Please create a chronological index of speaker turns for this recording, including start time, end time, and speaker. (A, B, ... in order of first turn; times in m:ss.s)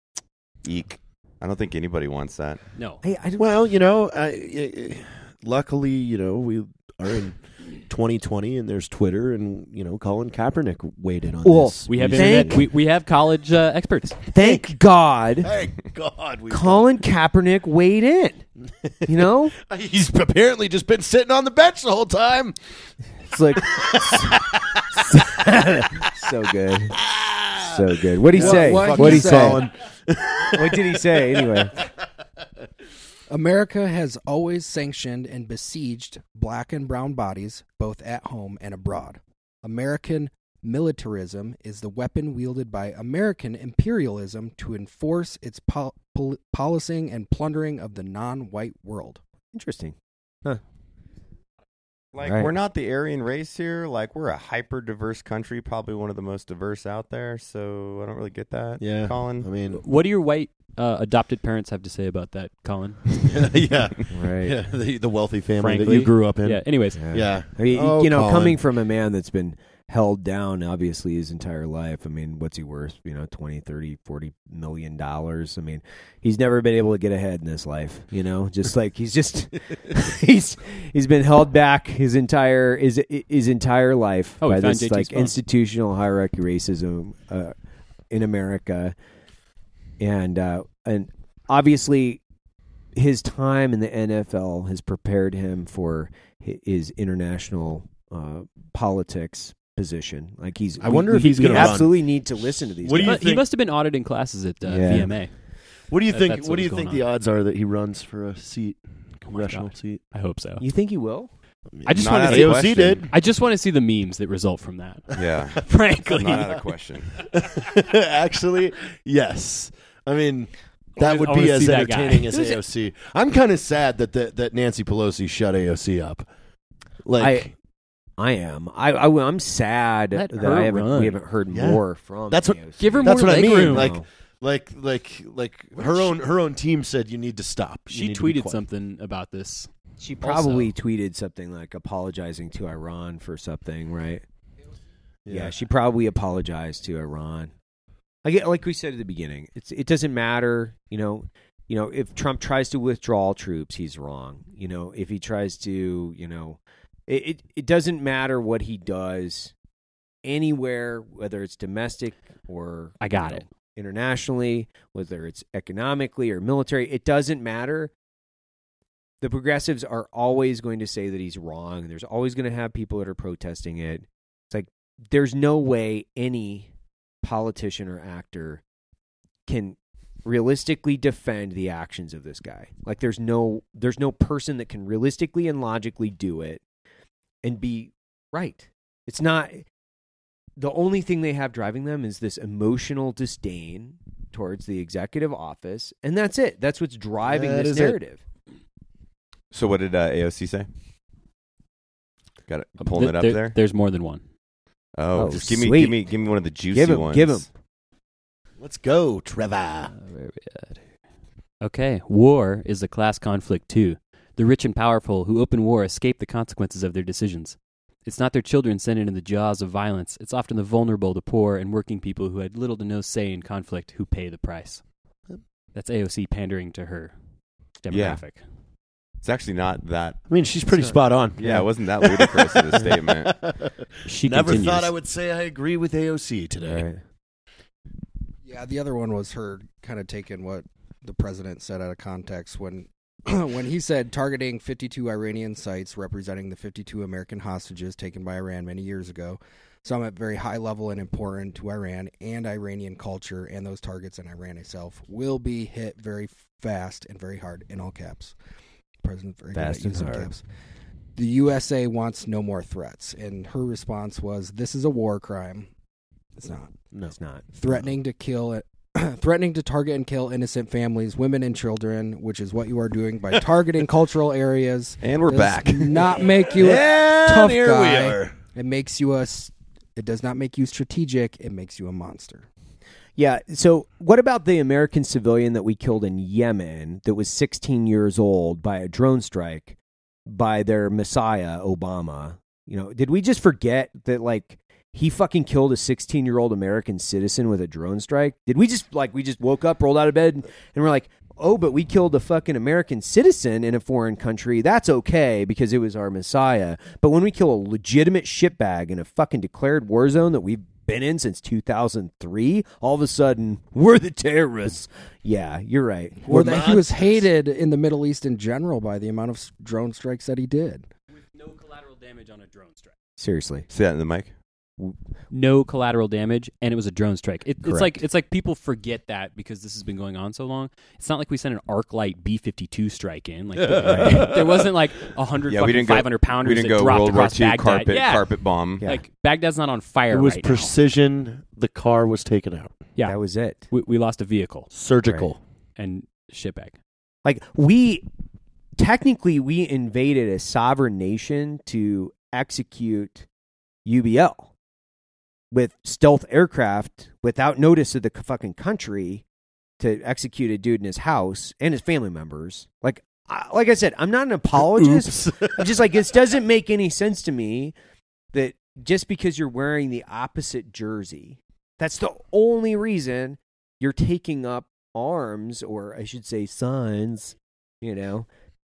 0:00.6-0:02.6 A
0:02.8-0:03.0 B
0:03.0-0:03.4 C
0:03.4-0:12.7 D
0:11.4-0:12.6 C
0:11.9-0:14.2 B
0:14.3-0:15.5 C
0:14.4-0:14.8 D
0:15.4-0:16.9 D
0:16.5-0:18.4 C
0:18.8-0:22.6 D
0:19.0-0:19.6 C
0:23.3-0:24.5 C
0:23.6-0:25.4 D
0:25.1-0:27.0 C
0:27.0-0:31.7 D
0:27.6-0:29.6 C
0:28.3-0:29.6 E
0:30.5-0:31.7 C
0:33.3-0:49.2 E
0:49.5-0:50.6 C
0:52.1-0:59.5 A
0:52.2-0:52.5 C
0:58.8-0:59.8 D
0:59.7-1:03.2 B
1:03.2-1:08.6 D
1:04.1-1:04.6 C
1:05.6-1:07.2 B
1:07.0-1:27.5 C
1:24.4-1:25.4 B
1:28.1-1:28.9 C
1:30.0-1:32.2 C
1:33.0-1:43.2 C
1:40.8-1:43.5 D
1:41.3-1:41.8 B
1:43.0-1:45.4 B
1:44.6-1:45.1 C
1:44.8-1:45.1 D
1:45.9-1:50.0 D
1:46.1-1:47.1 B
1:49.3-1:50.6 B
1:50.6-1:51.3 C
1:51.7-1:53.1 D
1:51.9-1:56.6 B
1:51.9-1:53.0 A
1:55.1-1:57.1 A
1:57.2-2:06.3 D
2:01.0-2:02.6 B
2:07.0-2:07.5 D
2:07.2-2:07.5 C
2:08.2-2:14.0 C
2:10.1-2:11.2 B
2:11.5-2:18.6 D
2:12.8-2:14.0 B
2:15.7-2:16.2 C
2:17.9-2:19.7 B
2:20.0-2:24.2 C
2:20.2-2:20.7 B
2:25.2-2:25.6 D
2:25.3-2:27.5 C
2:28.2-2:39.5 C
2:40.2-2:47.9 C
2:43.0-2:43.4 B
2:49.2-2:56.7 C
2:57.2-2:58.6 C
2:59.5-3:06.6 C
3:07.4-3:09.6 C
3:10.6-3:18.2 C
3:17.2-3:18.0 D
3:19.5-3:20.7 A
3:22.5-3:23.6 A
3:22.8-3:24.2 B
3:25.0-3:27.5 A
3:25.1-3:26.0 C
3:26.7-3:27.5 C
3:28.6-3:29.9 D
3:29.9-3:30.8 B
3:31.6-3:44.8 B
3:45.7-3:47.1 B
3:47.8-3:48.4 B
3:47.9-3:48.2 A
3:49.2-3:50.2 A
3:50.3-3:56.8 D
3:50.7-3:51.7 C
3:51.4-3:53.4 A
3:54.1-3:54.9 B
3:56.6-3:57.0 C
3:58.4-4:18.4 E
4:19.0-4:20.4 E
4:19.5-4:20.3 C
4:21.2-4:25.7 E
4:26.4-4:26.7 E
4:27.2-4:27.4 C
4:27.5-4:42.5 E
4:35.0-4:36.2 A
4:36.5-4:38.4 D
4:43.2-5:16.7 C
5:16.2-5:20.9 E
5:16.3-5:17.2 D
5:21.2-5:23.0 B
5:23.2-5:23.7 C
5:23.7-5:24.3 A
5:25.3-5:40.8 B
5:27.6-5:28.0 C
5:33.6-5:35.1 D
5:33.8-5:34.2 C
5:35.5-5:38.8 A
5:40.1-5:42.8 D
5:43.0-5:44.7 B
5:43.0-5:43.6 C
5:44.7-5:45.4 D
5:45.0-5:45.3 C
5:45.8-5:46.8 B
5:47.2-5:48.1 C
5:48.8-5:53.3 C
5:53.8-5:54.5 C
5:55.5-5:59.2 C
5:59.8-6:07.7 C
6:04.6-6:05.8 D
6:08.3-6:18.3 C